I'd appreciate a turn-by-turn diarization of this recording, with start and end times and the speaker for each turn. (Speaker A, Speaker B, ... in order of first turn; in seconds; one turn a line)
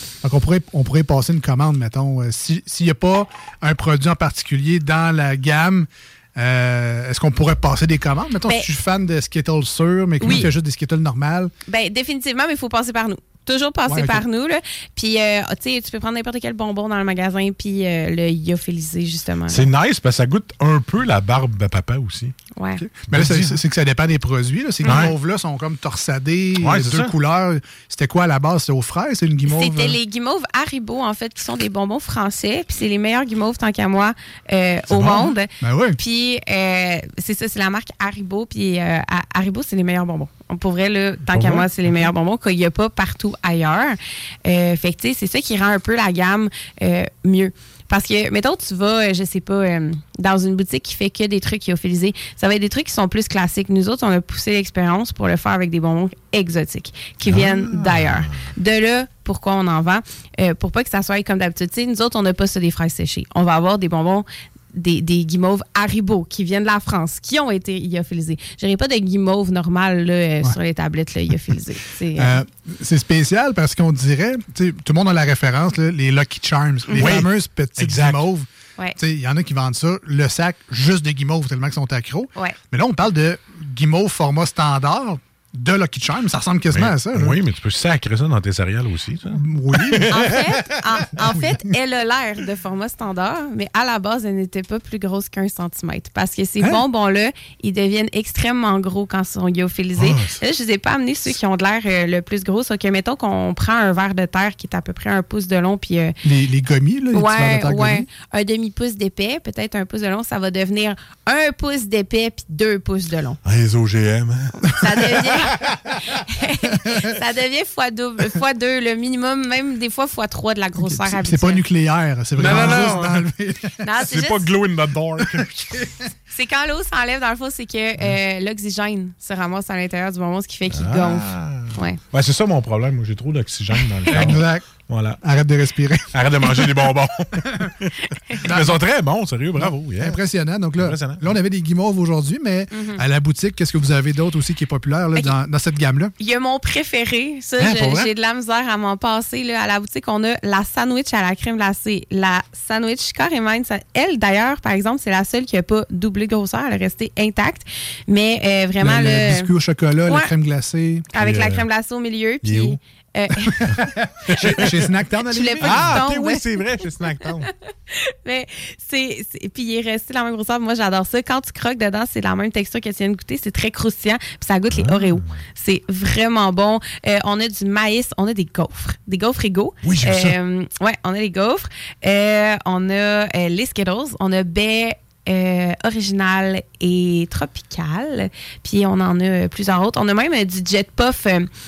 Speaker A: 0.2-11.5
Speaker B: 10.2-10.5
Speaker B: 11.7-19.6
Speaker A: 13.9-14.2
Speaker C: 19.5-22.3
Speaker B: 22.6-22.8
Speaker A: 22.8-30.0
Speaker C: 23.1-23.6
Speaker C: 24.9-25.1
Speaker C: 26.6-27.1
Speaker B: 29.5-72.3
Speaker C: 34.9-35.3
Speaker A: 35.6-36.0
Speaker C: 41.3-42.1
Speaker C: 57.2-58.5
Speaker A: 72.1-87.4
Speaker B: 76.9-77.1
Speaker C: 77.0-78.2
Speaker C: 86.7-90.4
Speaker A: 89.3-90.3
Speaker B: 90.1-106.1
Speaker A: 91.2-91.6
Speaker C: 100.0-100.4
Speaker A: 106.2-108.1
Speaker B: 107.1-113.4
Speaker C: 113.4-116.1
Speaker B: 114.6-115.6
Speaker B: 116.2-121.6
Speaker A: 120.8-123.8
Speaker C: 122.4-123.3
Speaker B: 122.4-122.9
Speaker B: 123.8-124.5
Speaker C: 124.0-125.9
Speaker A: 125.2-125.5
Speaker B: 126.3-132.0
Speaker C: 130.7-135.2
Speaker B: 133.8-134.3
Speaker A: 134.1-134.7
Speaker A: 135.2-136.1
Speaker C: 136.1-140.2
Speaker A: 138.4-138.8
Speaker A: 139.6-146.1
Speaker C: 140.8-141.3
Speaker B: 142.7-143.0
Speaker B: 146.2-159.5
Speaker C: 147.6-148.1
Speaker A: 158.8-161.1
Speaker B: 161.1-163.8
Speaker C: 161.2-161.7
Speaker C: 162.4-162.8
Speaker A: 163.4-166.1
Speaker C: 164.3-164.8
Speaker B: 164.4-164.6
Speaker B: 165.3-166.4
Speaker C: 165.6-167.5
Speaker B: 167.9-191.5
Speaker C: 174.7-175.4
Speaker C: 179.8-180.4